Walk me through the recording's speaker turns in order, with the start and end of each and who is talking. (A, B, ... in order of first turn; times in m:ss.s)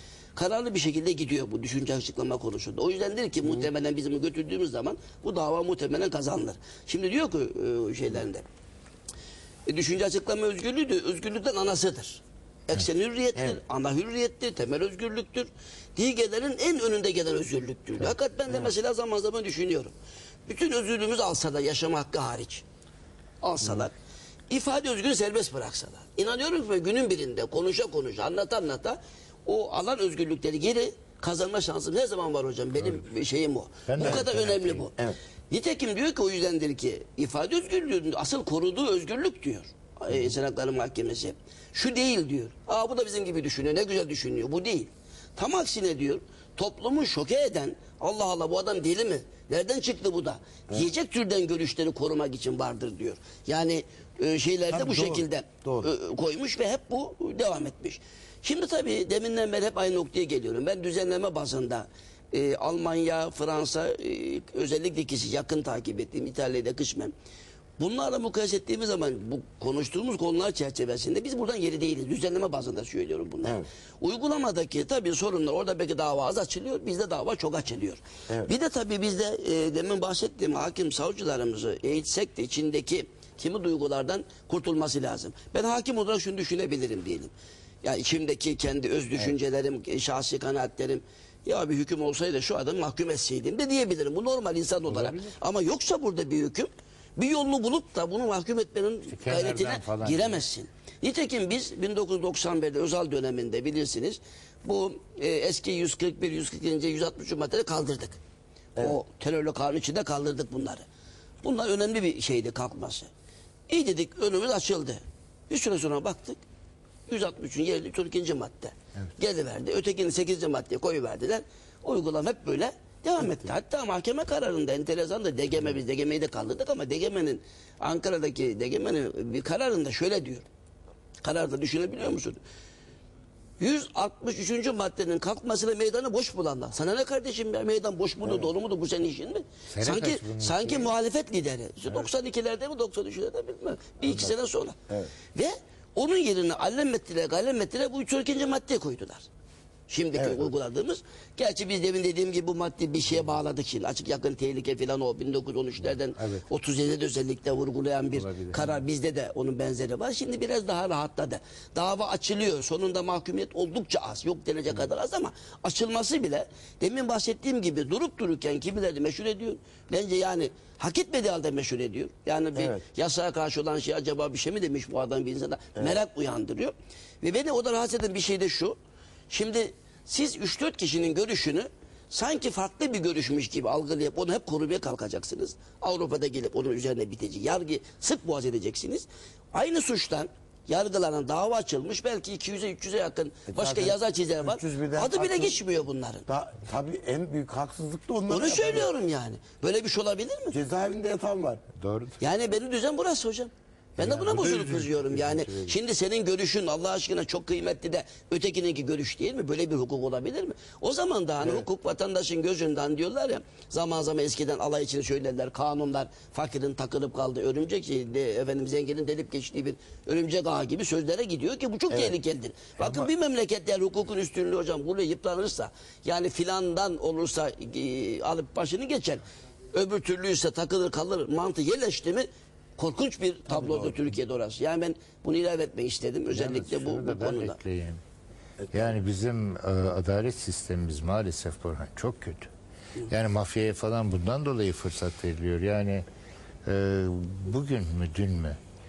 0:00.4-0:08.4 A
0:09.7-0:19.9 A
0:20.5-0:22.6 A
0:23.4-0:23.9 A
0:24.5-0:35.0 A
0:33.8-0:34.9 B
0:34.0-0:34.2 C
0:35.5-1:07.1 A
0:54.7-0:55.9 C
1:07.8-1:27.3 A
1:27.8-1:48.2 A
1:34.9-1:35.4 B
1:39.1-1:40.4 B
1:48.8-1:50.8 A
1:51.4-1:53.1 A
1:53.7-1:56.4 A
1:57.1-2:10.4 A
2:11.2-2:12.4 A
2:13.6-2:24.8 A
2:18.2-2:18.5 C
2:19.7-2:20.9 B
2:25.3-2:29.3 A
2:29.9-2:58.8 A
2:30.1-2:30.5 C
2:35.8-2:36.5 B
2:38.1-2:38.8 B
2:52.5-2:52.8 C
2:59.3-3:16.2 A
3:13.5-3:15.5 C
3:16.3-3:18.9 C
3:18.3-3:20.6 A
3:20.5-3:21.6 C
3:21.8-3:22.2 B
3:22.2-3:52.2 A
3:24.0-3:25.8 B
3:41.9-3:42.2 C
3:52.8-3:57.6 A
3:53.5-3:54.0 C
3:56.3-3:58.0 B
3:58.6-3:58.9 C
3:58.7-4:02.5 B
4:03.1-4:06.0 B
4:06.6-4:08.6 B